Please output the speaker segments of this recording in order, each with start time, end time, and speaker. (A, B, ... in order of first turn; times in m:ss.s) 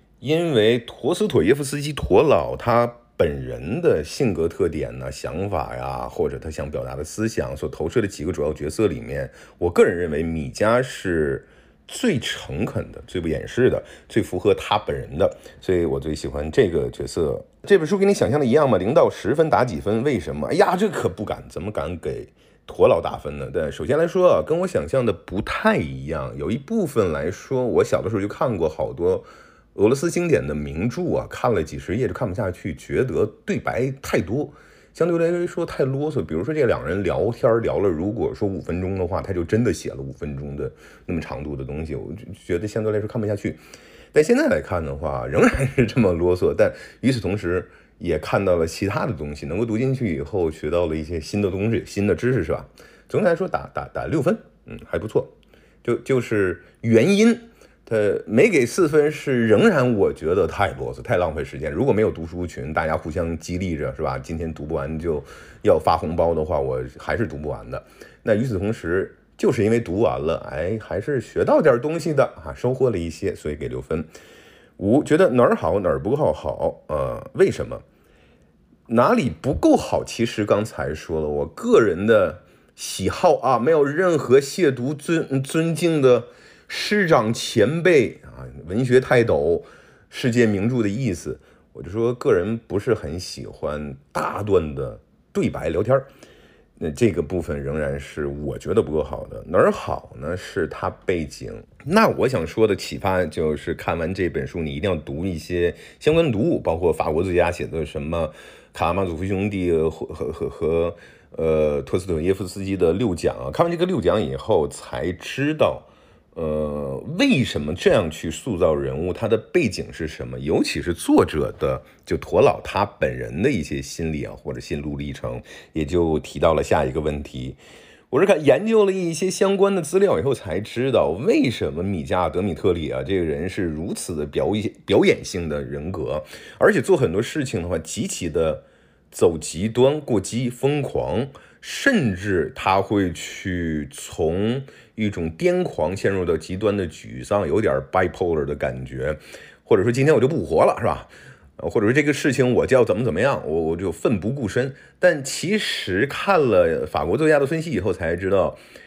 0:00.2-0:55.3 A
0:55.8-1:14.1 A
1:14.8-1:17.8 A
1:18.9-1:36.1 A
1:36.8-2:38.6 A